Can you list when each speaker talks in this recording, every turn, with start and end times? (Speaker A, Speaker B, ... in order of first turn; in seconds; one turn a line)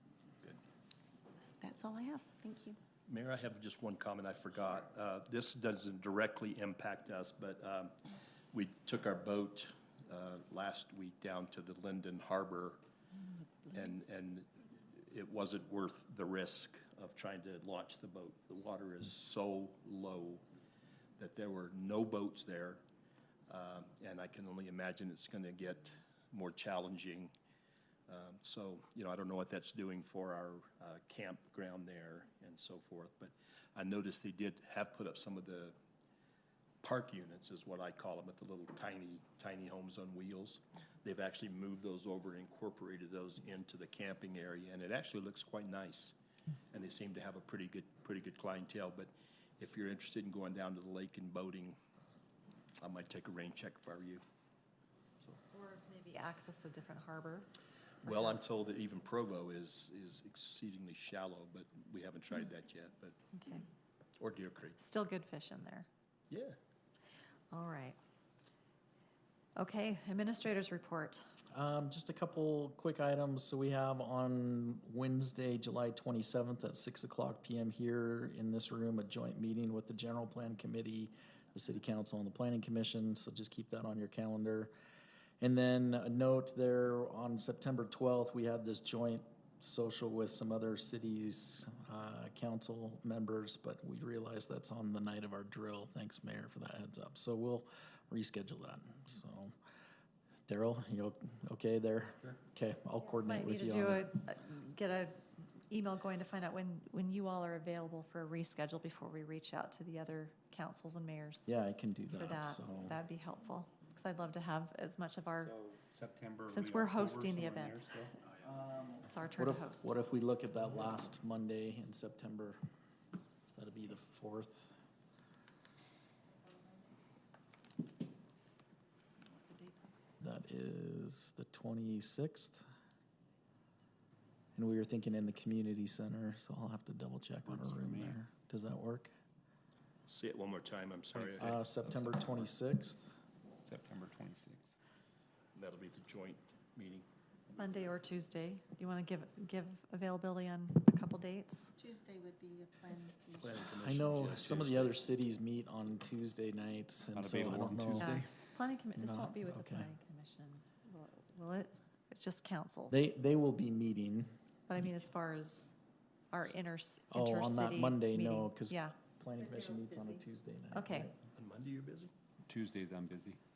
Speaker A: 1.6-2.8
Speaker B: 3.1-7.9
Speaker B: 8.5-12.8
Speaker B: 13.7-20.4
Speaker B: 21.2-22.8
Speaker B: 23.5-27.3
Speaker B: 28.1-35.8
Speaker B: 36.8-46.1
Speaker B: 46.7-51.8
Speaker B: 52.8-54.2
Speaker C: 55.5-57.5
Speaker C: 58.0-58.5
Speaker B: 58.0-63.2
Speaker C: 63.3-63.7
Speaker B: 64.2-64.8
Speaker C: 64.8-65.9
Speaker B: 66.3-66.6
Speaker C: 67.5-68.0
Speaker C: 69.6-71.2
Speaker D: 71.5-84.7
Speaker D: 85.4-99.5
Speaker D: 100.5-104.1
Speaker C: 103.3-111.5
Speaker D: 111.5-113.0
Speaker C: 112.1-115.5
Speaker E: 115.4-118.2
Speaker C: 116.5-117.9
Speaker C: 119.0-119.9
Speaker D: 119.4-122.6
Speaker D: 123.5-124.8
Speaker C: 129.3-130.0
Speaker D: 130.2-132.6
Speaker D: 134.6-139.1
Speaker E: 137.5-138.2
Speaker B: 140.1-142.2
Speaker E: 141.2-141.5
Speaker D: 141.4-143.1
Speaker E: 143.7-144.8
Speaker B: 145.6-147.1
Speaker C: 147.6-151.7
Speaker A: 151.8-153.8
Speaker B: 153.4-155.0
Speaker D: 153.8-158.3
Speaker E: 157.1-158.2
Speaker C: 158.0-163.1
Speaker D: 159.0-159.9
Speaker D: 162.9-164.3
Speaker C: 164.7-165.8
Speaker C: 166.3-169.0
Speaker D: 167.1-171.2
Speaker A: 169.3-170.2
Speaker C: 170.7-171.1
Speaker B: 171.4-172.1
Speaker E: 172.5-173.4